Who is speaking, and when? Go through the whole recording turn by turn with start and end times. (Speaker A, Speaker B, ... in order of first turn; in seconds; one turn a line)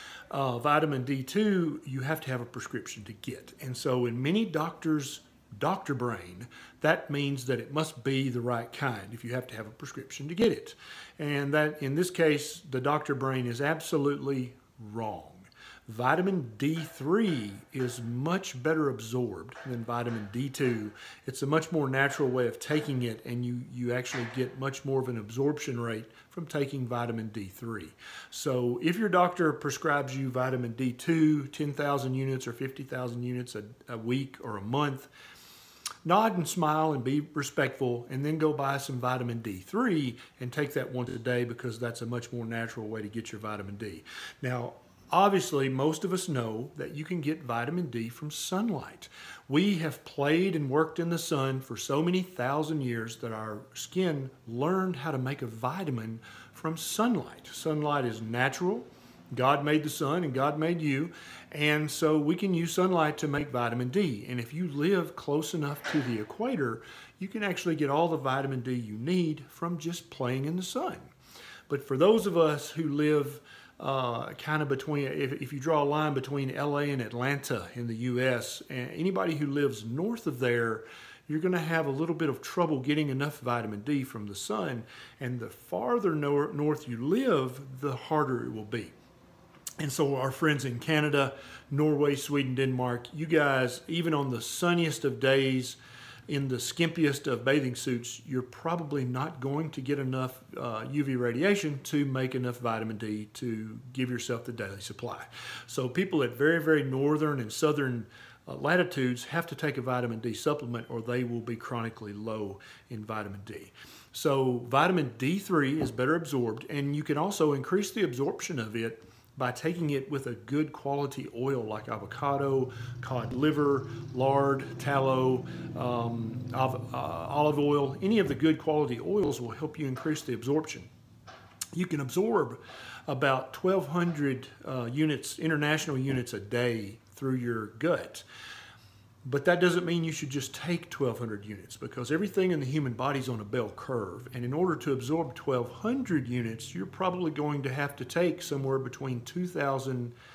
Speaker A: 0.3-35.1
Speaker A: 36.0-71.1
Speaker A: 71.7-89.0
Speaker A: 89.8-95.8
Speaker A: 96.3-130.9
Speaker A: 131.7-138.2
Speaker A: 139.2-150.2